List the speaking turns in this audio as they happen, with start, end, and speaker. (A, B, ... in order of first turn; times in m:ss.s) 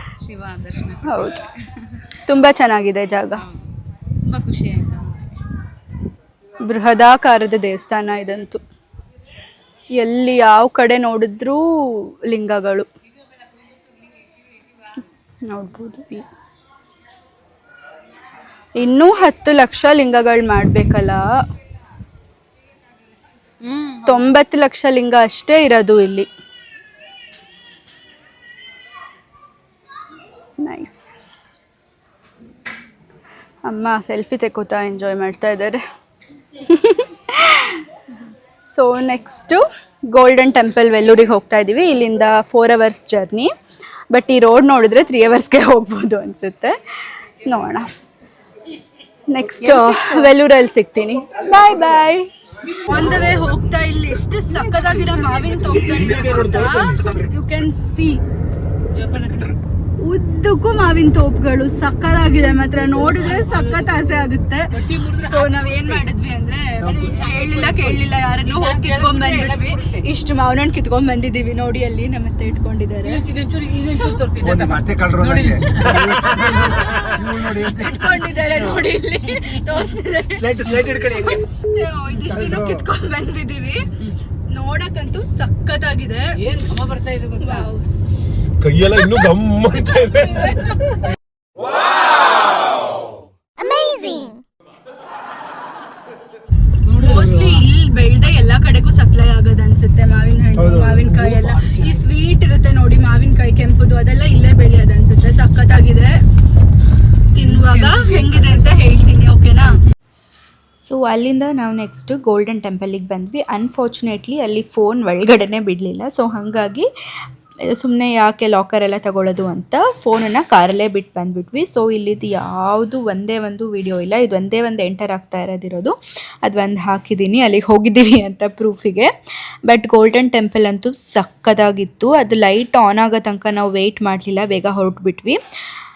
0:00.2-0:02.0 A
0:01.1-0:01.4 B
0:02.2-0:03.4 B
0:04.2-0:05.2 A
0:06.6-0:08.6 B
0:09.9-0:12.9 B
0:15.4-0:16.2 B
0:18.8-0:21.2 B
0:23.6-0:24.0 A
0:24.0-0:26.3 B
0:30.6-0:31.5 B
0:33.6-0:35.8 B
0:36.6-0:37.8 B
0:38.6-0:43.5 B
0:44.1-0:46.8 B
0:47.4-0:47.9 B
0:49.3-0:52.3 B
0:49.6-0:50.3 A
0:52.8-0:58.2 B
0:55.8-0:57.1 C
1:00.0-1:14.6 B
1:15.4-1:23.9 B
1:15.9-1:16.2 C
1:20.7-1:21.0 C
1:24.5-1:26.7 B
1:27.2-1:27.9 B
1:28.6-1:30.7 C
1:36.8-1:46.2 B
1:47.3-1:49.8 B
1:50.8-1:56.9 B
1:57.6-2:09.1 B
2:09.7-2:15.4 B